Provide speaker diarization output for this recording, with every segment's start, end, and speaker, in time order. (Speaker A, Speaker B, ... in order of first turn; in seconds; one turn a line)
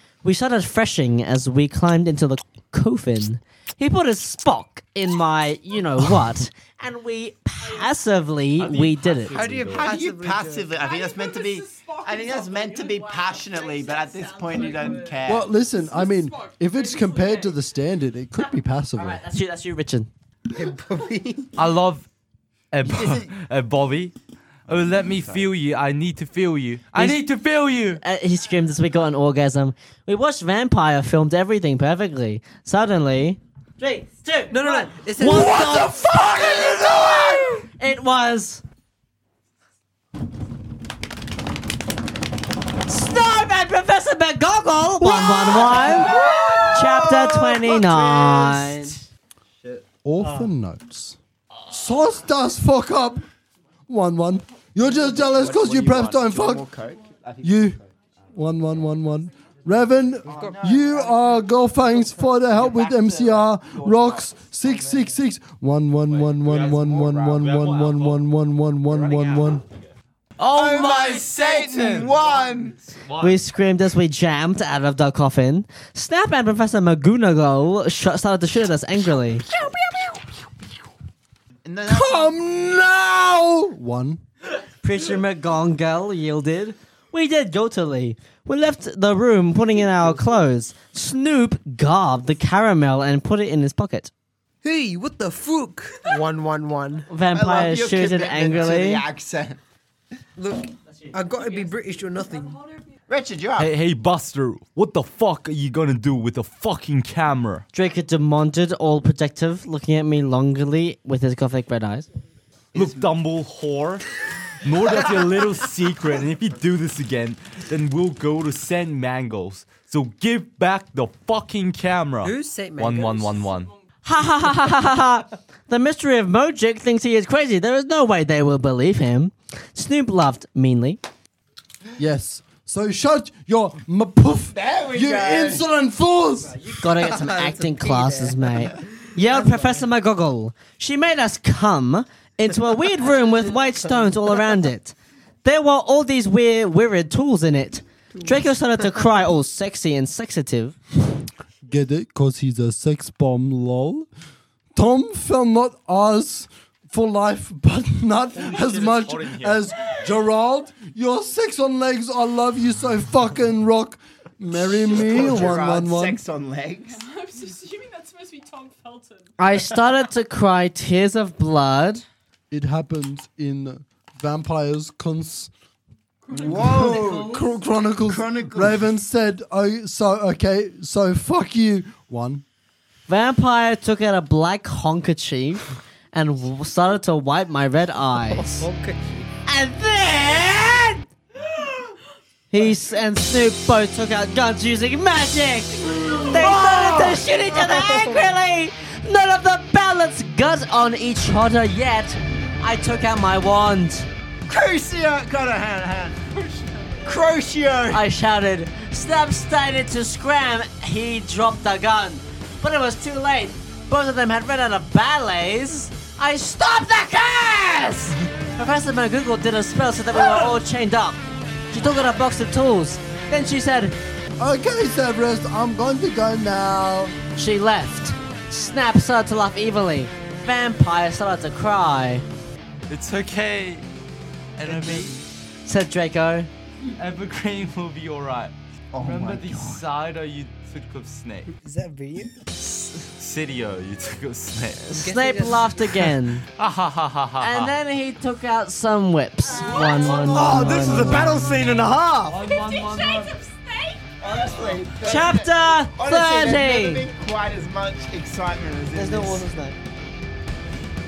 Speaker A: 0.2-9.4
Speaker B: 8.6-9.9
Speaker C: 9.3-10.7
Speaker D: 9.7-15.5
Speaker E: 10.8-15.1
Speaker F: 15.2-19.2
Speaker E: 15.8-17.5
Speaker A: 18.9-20.1
Speaker C: 20.5-21.5
Speaker B: 21.5-22.1
Speaker B: 22.7-24.1
Speaker D: 22.8-23.4
Speaker B: 24.7-28.0
Speaker D: 24.7-25.5
Speaker A: 26.9-27.2
Speaker A: 28.0-38.6
Speaker C: 34.5-36.0
Speaker A: 42.9-46.1
Speaker D: 45.6-48.8
Speaker A: 46.7-49.0
Speaker B: 46.9-47.2
Speaker F: 50.0-51.2
Speaker F: 51.7-53.2
Speaker F: 53.9-56.7
Speaker D: 54.8-57.9
Speaker F: 57.4-57.8
Speaker F: 58.3-69.6
Speaker D: 60.2-65.1
Speaker C: 60.3-60.6
Speaker B: 66.1-68.2
Speaker D: 66.7-67.4
Speaker B: 69.0-69.5
Speaker B: 70.4-73.4
Speaker D: 70.5-72.8
Speaker A: 73.2-79.5
Speaker F: 79.5-80.2
Speaker D: 81.6-82.4
Speaker F: 81.9-84.2
Speaker A: 84.8-94.1
Speaker C: 94.6-97.1
Speaker A: 97.1-99.0
Speaker D: 97.3-99.6
Speaker C: 100.4-102.7
Speaker D: 103.1-103.8
Speaker B: 103.6-107.7
Speaker A: 107.7-112.1
Speaker D: 112.7-113.2
Speaker B: 112.7-114.0
Speaker B: 114.6-123.7
Speaker C: 122.2-123.5
Speaker A: 124.0-131.0
Speaker F: 132.0-136.5
Speaker D: 134.5-135.7
Speaker C: 136.7-138.5
Speaker A: 136.8-150.8
Speaker F: 151.6-154.1
Speaker F: 154.7-166.2
Speaker B: 158.4-159.7
Speaker D: 164.8-167.0
Speaker E: 167.0-169.2
Speaker A: 169.4-172.0
Speaker F: 172.5-175.5
Speaker E: 176.3-177.2
Speaker D: 176.3-178.8
Speaker F: 176.6-182.4
Speaker A: 183.1-188.7
Speaker C: 188.3-189.3
Speaker A: 189.5-191.0
Speaker A: 192.5-204.1
Speaker C: 196.0-196.6
Speaker D: 204.5-206.2
Speaker D: 207.0-208.0
Speaker A: 207.9-221.2
Speaker A: 221.7-223.9
Speaker F: 224.4-227.2
Speaker A: 227.3-232.2
Speaker B: 232.9-233.8
Speaker B: 234.6-235.2
Speaker C: 234.7-235.2
Speaker A: 235.7-236.5
Speaker B: 237.0-241.5
Speaker D: 238.9-239.8
Speaker C: 241.5-242.3
Speaker B: 243.0-244.8
Speaker A: 244.8-246.4
Speaker C: 244.9-245.9
Speaker B: 246.6-247.7
Speaker A: 247.4-251.5
Speaker B: 249.9-251.3
Speaker G: 250.3-252.5
Speaker B: 252.3-253.3
Speaker E: 252.4-254.0
Speaker D: 254.2-259.4
Speaker B: 254.4-254.8
Speaker A: 255.0-257.0
Speaker A: 258.9-259.8